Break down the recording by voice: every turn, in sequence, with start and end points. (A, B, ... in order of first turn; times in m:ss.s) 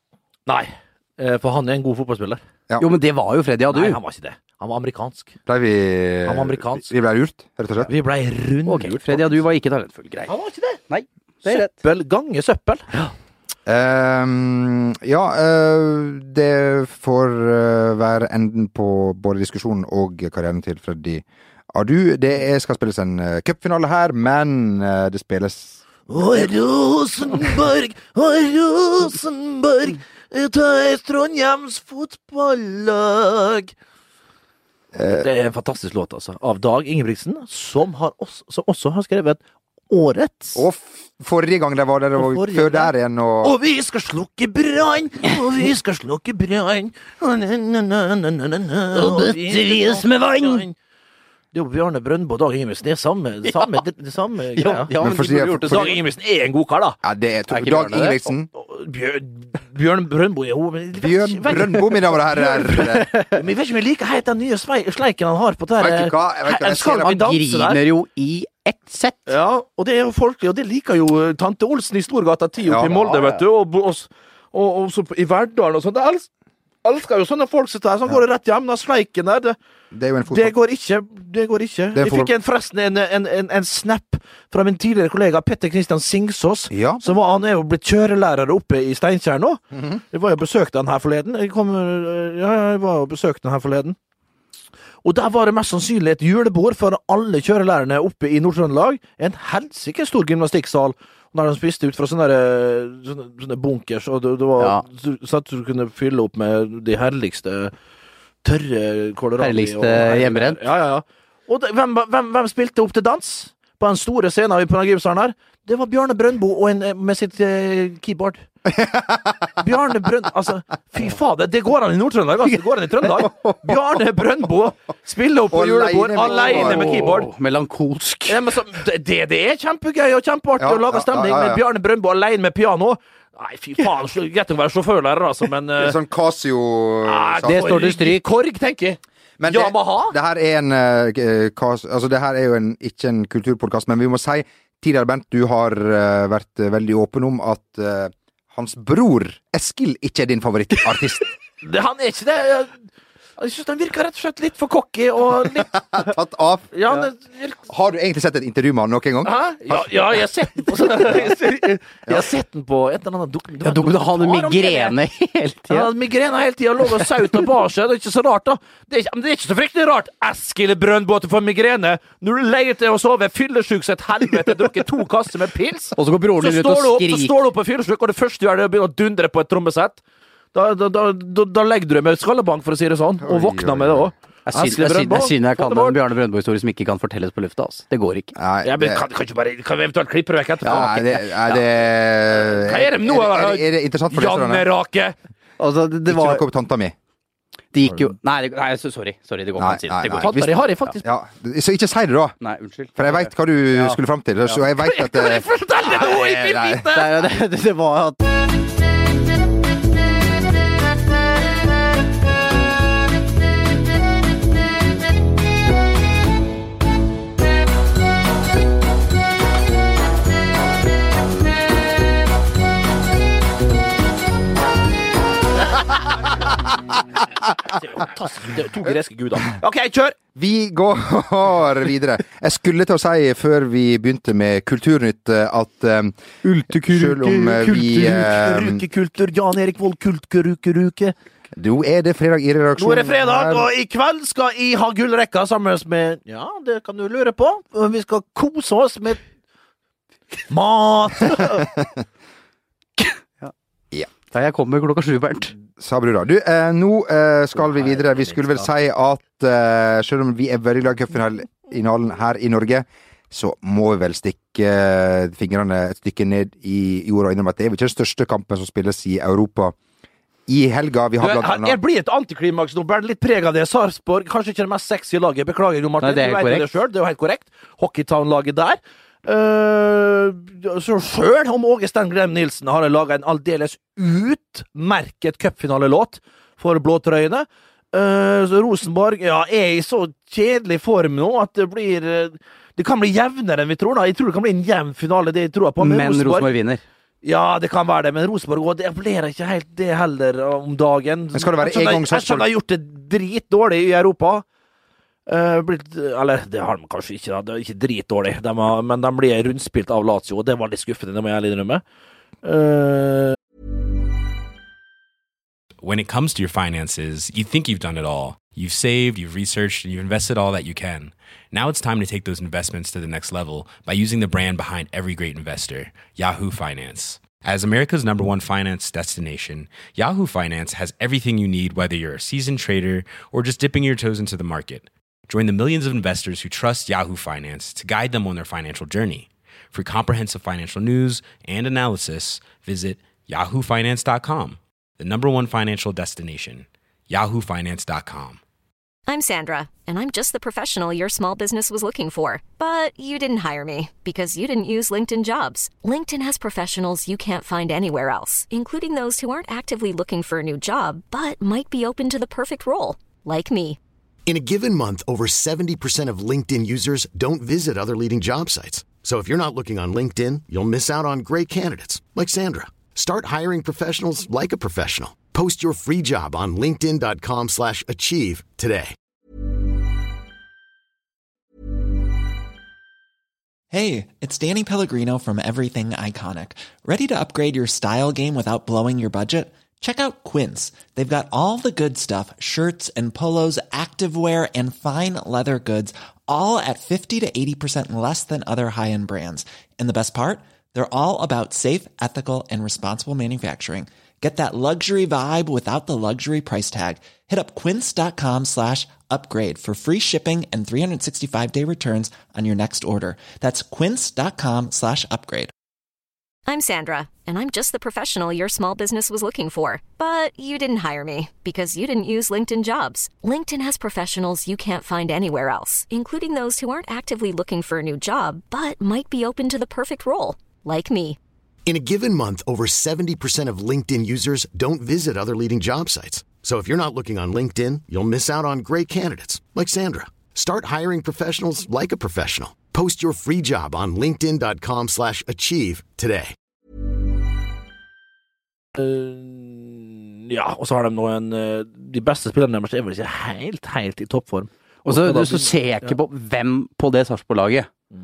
0:00.5-0:02.4 A
0:02.8-0:04.0 B
0:03.7-0:05.3 A
0:05.4-0:07.9 C
0:06.2-0:06.9 A
0:07.8-0:09.4 A
0:08.6-0:10.3 B
0:10.3-0:10.8 A
0:10.9-0:11.7 B
0:11.4-0:12.8 A
0:13.6-0:25.8 C
0:26.1-0:33.7 A
0:34.9-0:35.3 C
0:35.1-0:40.6 A
0:40.5-0:43.5 C
0:42.2-0:42.9 A
0:43.4-0:50.7 A
0:48.9-0:50.6 B
0:51.5-0:55.0 A
0:53.4-0:53.8 B
0:54.6-0:56.0 B
0:55.0-0:55.8 C
0:55.6-0:57.0 A
0:57.0-0:58.5 C
0:57.5-0:58.2 B
0:58.5-1:07.8 A
1:01.0-1:03.1 C
1:05.8-1:07.1 C
1:07.0-1:09.3 B
1:09.3-1:16.3 A
1:12.7-1:13.0 C
1:13.1-1:13.4 B
1:16.8-1:19.6 A
1:19.9-1:20.5 C
1:20.3-1:29.6 A
1:21.9-1:22.3 C
1:26.7-1:27.1 C
1:29.7-1:30.0 C
1:30.1-1:34.0 A
1:35.0-1:47.7 A
1:44.6-1:44.8 B
1:48.4-1:58.4 A
1:49.4-1:50.6 B
1:58.7-1:59.4 C
1:59.6-2:07.3 A
2:03.2-2:03.8 C
2:05.5-2:07.0 C
2:06.2-2:08.4 B
2:08.3-2:16.0 A
2:10.6-2:11.6 C
2:15.8-2:17.7 C
2:17.0-2:20.1 A
2:17.4-2:18.2 B
2:19.4-2:31.3 C
2:31.6-2:32.7 A
2:33.4-2:36.1 A
2:35.6-2:36.7 C
2:36.7-2:37.6 A
2:37.7-2:41.0 C
2:39.2-2:45.0 A
2:43.6-2:45.9 B
2:45.7-3:00.0 A
2:56.0-2:57.4 B
3:00.5-3:06.0 A
3:03.2-3:04.1 C
3:04.4-3:08.4 B
3:08.4-3:09.0 C
3:08.6-3:11.6 A
3:10.6-3:10.9 B
3:10.6-3:14.7 C
3:12.4-3:15.2 A
3:15.6-3:16.4 B
3:16.1-3:16.9 C
3:17.7-3:20.4 B
3:19.6-3:22.3 C
3:20.2-3:21.0 A
3:22.4-3:24.0 B
3:22.9-3:26.9 C
3:24.7-3:27.3 A
3:26.8-3:28.2 B
3:47.7-3:50.2 A
3:50.3-3:56.2 C
3:56.4-3:56.8 B
3:56.7-3:58.8 C
3:56.7-4:01.1 A
4:01.5-4:03.7 C
4:02.8-4:09.2 A
4:10.5-4:11.8 A
4:14.3-4:15.5 B
4:15.8-4:29.8 C
4:30.5-4:31.8 C
4:31.2-4:56.5 A
4:36.0-4:36.7 B
4:55.8-4:56.8 B
4:57.2-5:04.4 A
5:01.3-5:02.5 C
5:05.3-5:11.8 A
5:12.4-5:13.4 A
5:15.8-5:48.4 D
5:49.1-6:03.8 E
6:04.3-6:18.9 F
6:23.7-6:55.5 G
6:56.4-7:11.2 E
7:11.6-7:26.3 F
7:28.8-7:35.9 A
7:34.8-7:37.7 B